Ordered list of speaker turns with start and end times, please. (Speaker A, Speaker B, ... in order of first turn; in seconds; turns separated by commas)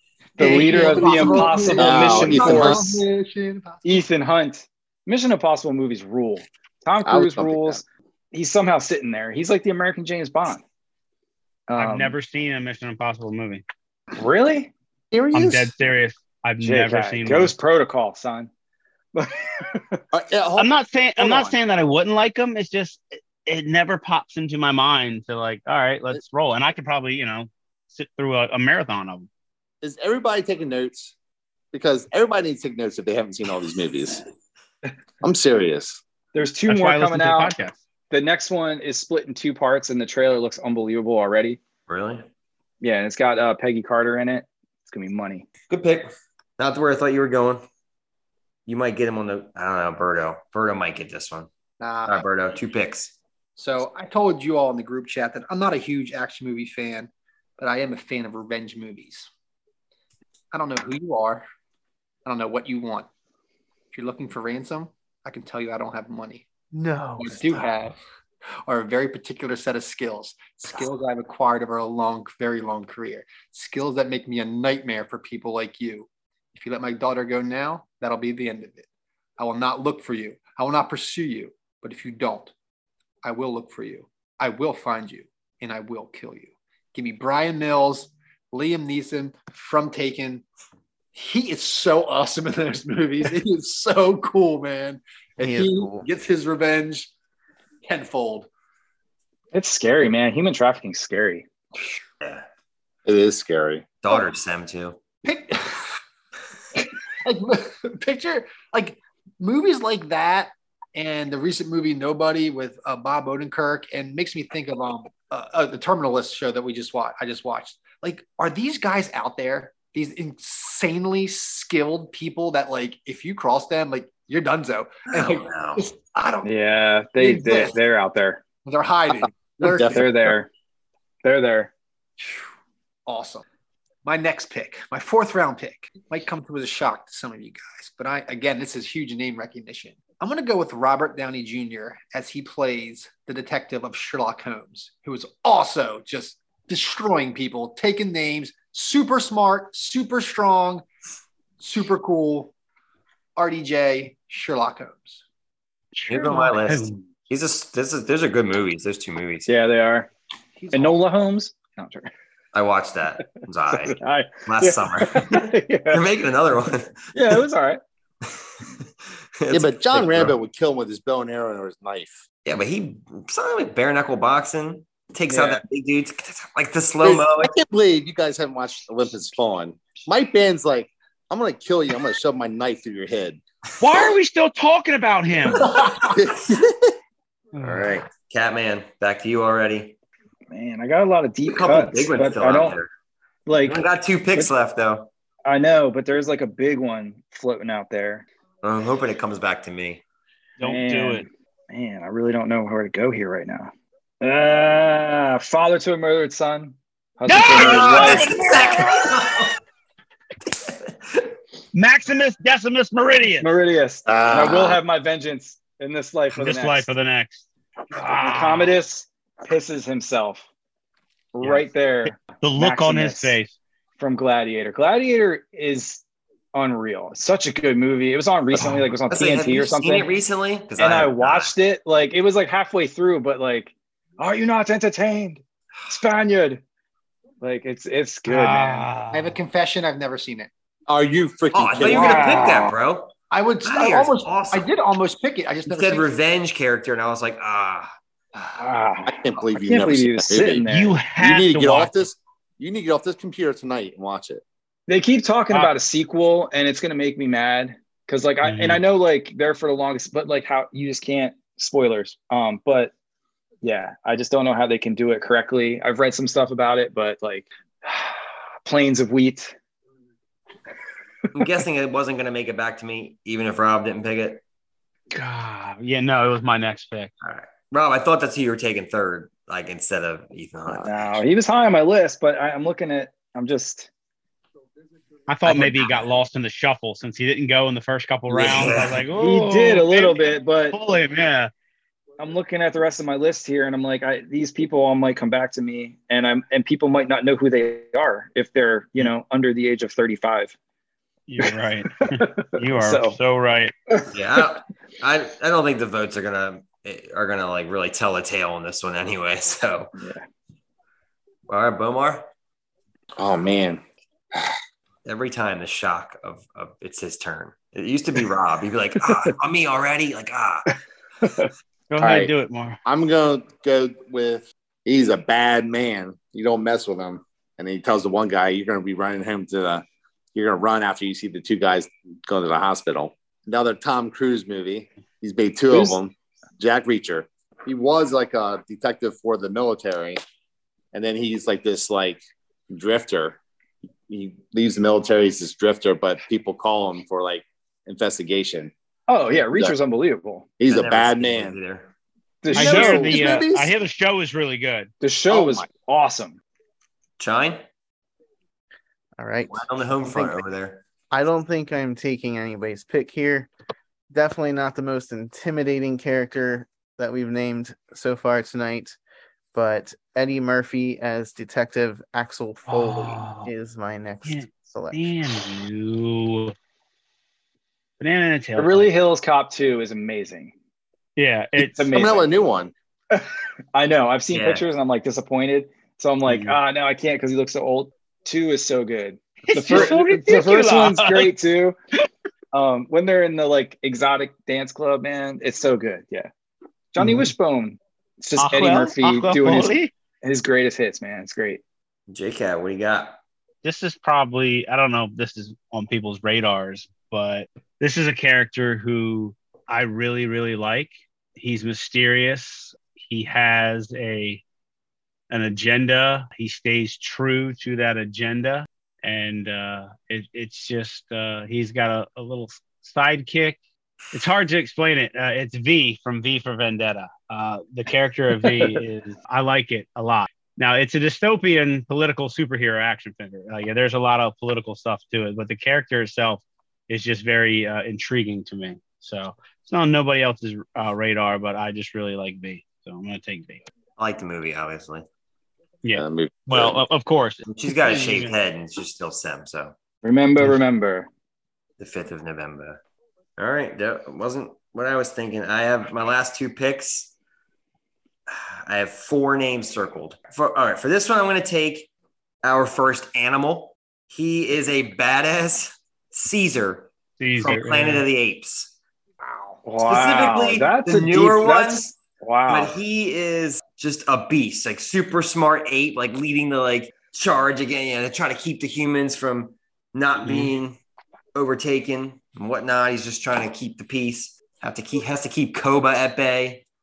Speaker A: 0.4-3.0, Speaker B: 0.4-4.0, Speaker C: 1.0-3.0, Speaker A: 3.8-10.6, Speaker C: 7.0-7.8, Speaker A: 11.7-12.2, Speaker D: 11.8-13.6, Speaker A: 14.2-14.7, Speaker E: 15.1-15.7, Speaker C: 15.1-15.4, Speaker D: 15.3-17.5, Speaker A: 16.6-18.5, Speaker A: 19.1-20.0, Speaker C: 20.1-21.6, Speaker D: 20.6-29.3, Speaker C: 29.8-31.1, Speaker C: 31.7-34.2, Speaker C: 35.2-36.0, Speaker A: 36.3-37.5, Speaker D: 36.7-37.8, Speaker A: 38.1-41.6, Speaker F: 41.9-42.3, Speaker A: 42.8-45.5, Speaker F: 45.7-47.6, Speaker F: 48.7-51.5, Speaker B: 51.8-52.2, Speaker F: 52.0-53.1, Speaker B: 53.6-59.3, Speaker B: 60.5-61.4, Speaker B: 62.2-63.1, Speaker B: 63.9-66.5, Speaker E: 66.7-67.5, Speaker B: 67.2-68.0, Speaker B: 68.7-78.8, Speaker B: 79.4-82.5, Speaker B: 83.2-90.4, Speaker B: 91.1-97.1, Speaker E: 95.4-96.1, Speaker B: 97.8-98.5, Speaker A: 99.5-101.5, Speaker C: 103.0-103.9, Speaker F: 104.0-105.0, Speaker B: 105.2-105.9, Speaker B: 106.7-126.5, Speaker F: 125.1-125.8, Speaker A: 126.4-128.4, Speaker B: 127.2-127.8, Speaker B: 128.6-130.0, Speaker C: 129.6-130.0, Speaker A: 129.8-130.5, Speaker A: 131.2-131.7, Speaker B: 132.2-132.5, Speaker B: 133.1-133.4, Speaker B: 134.0-150.8, Speaker B: 151.6-152.5, Speaker B: 153.3-155.2, Speaker D: 155.9-157.1, Speaker F: 156.1-159.5, Speaker A: 159.4-160.1, Speaker B: 160.6-161.0, Speaker A: 160.7-162.1, Speaker F: 162.5-167.1, Speaker A: 163.7-166.0, Speaker A: 167.1-167.8, Speaker F: 168.3-168.6, Speaker F: 169.3-170.3, Speaker C: 169.5-172.2, Speaker F: 172.4-177.5, Speaker A: 175.3-175.6, Speaker C: 177.0-183.4, Speaker D: 183.8-185.8, Speaker C: 186.1-186.9, Speaker D: 187.5-188.0, Speaker F: 187.6-189.9, Speaker A: 190.5-192.8, Speaker F: 191.5-192.9, Speaker A: 193.4-194.5, Speaker F: 193.6-195.1, Speaker A: 195.4-198.2, Speaker F: 198.6-200.0, Speaker D: 200.6-201.2, Speaker A: 200.6-208.3, Speaker D: 207.3-209.1, Speaker F: 207.6-209.6, Speaker F: 210.5-211.3, Speaker D: 211.7-213.5, Speaker A: 213.4-216.9, Speaker C: 214.1-214.8, Speaker D: 216.3-217.4, Speaker A: 217.9-220.5, Speaker D: 218.0-218.7, Speaker A: 221.3-223.4, Speaker D: 221.4-223.5, Speaker A: 224.0-226.0, Speaker A: 226.5-230.1, Speaker F: 229.1-231.5, Speaker A: 230.8-236.6, Speaker A: 237.4-238.9, Speaker D: 238.2-239.3, Speaker B: 239.1-240.5, Speaker C: 240.9-242.4, Speaker F: 241.5-244.7, Speaker A: 241.8-242.7, Speaker B: 242.1-242.6, Speaker B: 243.3-246.1, Speaker F: 245.7-247.9, Speaker A: 248.6-251.0, Speaker C: 249.1-254.4, Speaker D: 250.7-252.0, Speaker A: 254.9-262.9, Speaker D: 258.4-258.8, Speaker A: 263.6-269.5, Speaker F: 271.3-274.4, Speaker D: 275.1-277.1, Speaker F: 277.2-281.2, Speaker A: 280.8-283.9, Speaker D: 285.3-291.5, Speaker F: 285.4-285.9, Speaker F: 288.3-289.0, Speaker A: 289.1-290.8, Speaker A: 292.2-300.6, Speaker D: 301.3-303.7, Speaker A: 301.4-303.2, Speaker F: 304.1-309.9, Speaker A: 309.9-310.2, Speaker F: 311.5-312.3, Speaker C: 313.2-313.8, Speaker F: 315.0-320.7, Speaker A: 321.2-321.5, Speaker D: 321.9-322.8, Speaker C: 322.0-322.3, Speaker C: 322.8-340.2, Speaker A: 335.7-336.0, Speaker C: 340.9-343.4, Speaker C: 344.1-348.7, Speaker A: 349.1-350.5, Speaker C: 349.4-349.7, Speaker C: 350.6-351.6, Speaker F: 350.7-351.9, Speaker A: 352.4-353.4, Speaker D: 352.5-354.9, Speaker C: 352.5-353.7, Speaker A: 355.0-356.4, Speaker C: 355.3-355.6, Speaker F: 357.2-357.6, Speaker E: 359.2-360.4, Speaker F: 359.5-360.8, Speaker E: 361.1-363.5, Speaker E: 364.1-369.0, Speaker E: 369.5-375.1, Speaker D: 372.7-373.5, Speaker D: 374.2-376.5, Speaker D: 378.0-378.9, Speaker A: 378.6-380.5, Speaker D: 381.1-381.9, Speaker A: 381.6-382.3, Speaker C: 381.9-382.7, Speaker A: 383.1-391.8, Speaker F: 384.3-384.6, Speaker D: 386.2-386.6, Speaker D: 389.5-391.3, Speaker A: 392.5-396.3, Speaker A: 396.9-401.6, Speaker D: 397.0-397.3, Speaker D: 398.4-399.9, Speaker F: 402.1-403.2, Speaker D: 403.6-414.4, Speaker D: 415.3-423.6, Speaker D: 424.1-443.6, Speaker A: 428.4-428.8, Speaker F: 444.0-445.1, Speaker D: 445.8-448.3, Speaker C: 445.9-446.8, Speaker F: 447.4-449.8, Speaker A: 450.0-451.1, Speaker F: 451.8-452.8, Speaker F: 453.4-457.1, Speaker F: 458.3-461.9, Speaker F: 462.4-468.7, Speaker D: 467.2-468.0, Speaker B: 469.2-469.6, Speaker A: 469.6-472.7, Speaker F: 469.8-472.0, Speaker F: 472.5-480.8, Speaker D: 480.2-480.5, Speaker F: 481.3-486.6